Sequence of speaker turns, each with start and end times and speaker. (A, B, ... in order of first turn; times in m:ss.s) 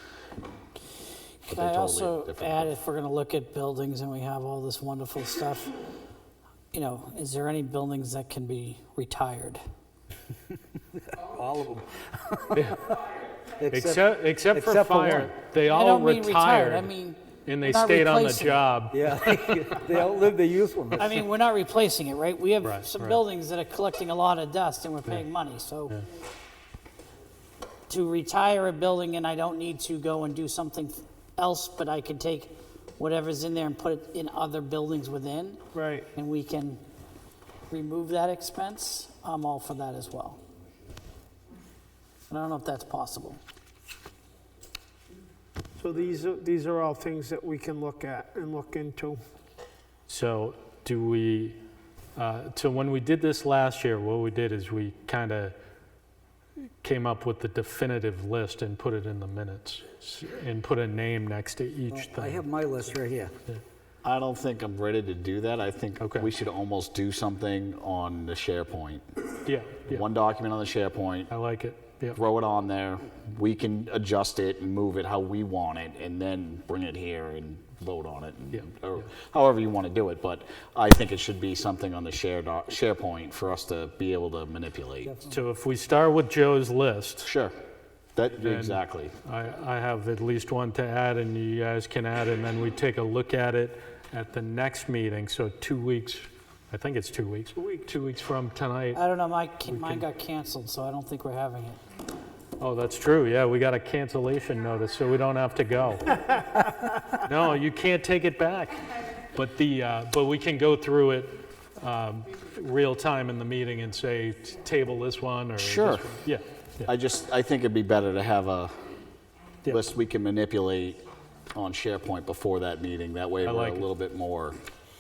0:01.5-0:02.8 A
0:01.5-0:05.7 B
0:06.7-0:09.6 B
0:11.0-0:12.8 C
0:13.6-0:15.4 C
0:13.7-0:16.9 D
0:15.6-0:18.6 B
0:17.5-0:19.8 D
0:18.9-0:21.2 C
0:21.0-0:26.0 B
0:22.6-0:23.2 D
0:27.9-0:35.6 B
0:35.7-0:36.1 E
0:36.2-0:36.8 B
0:37.7-0:40.4 B
0:42.3-0:43.4 B
0:45.8-0:49.2 E
0:50.1-0:51.6 D
0:52.2-0:55.6 D
0:56.8-1:02.4 D
1:01.9-1:03.3 C
1:04.0-1:09.1 A
1:06.0-1:06.3 D
1:09.4-1:10.0 D
1:09.9-1:11.3 A
1:11.3-1:12.2 D
1:12.1-1:25.1 A
1:18.5-1:19.0 D
1:25.0-1:25.4 C
1:25.3-1:27.3 D
1:27.2-1:27.6 A
1:28.2-1:29.2 A
1:28.4-1:39.0 D
1:37.6-1:37.9 E
1:39.0-1:41.8 B
1:39.6-1:40.0 D
1:42.6-1:48.8 D
1:49.3-1:56.9 D
1:55.6-1:56.2 A
1:56.9-1:58.7 A
1:59.7-2:01.0 A
2:01.6-2:04.6 A
2:03.4-2:03.9 D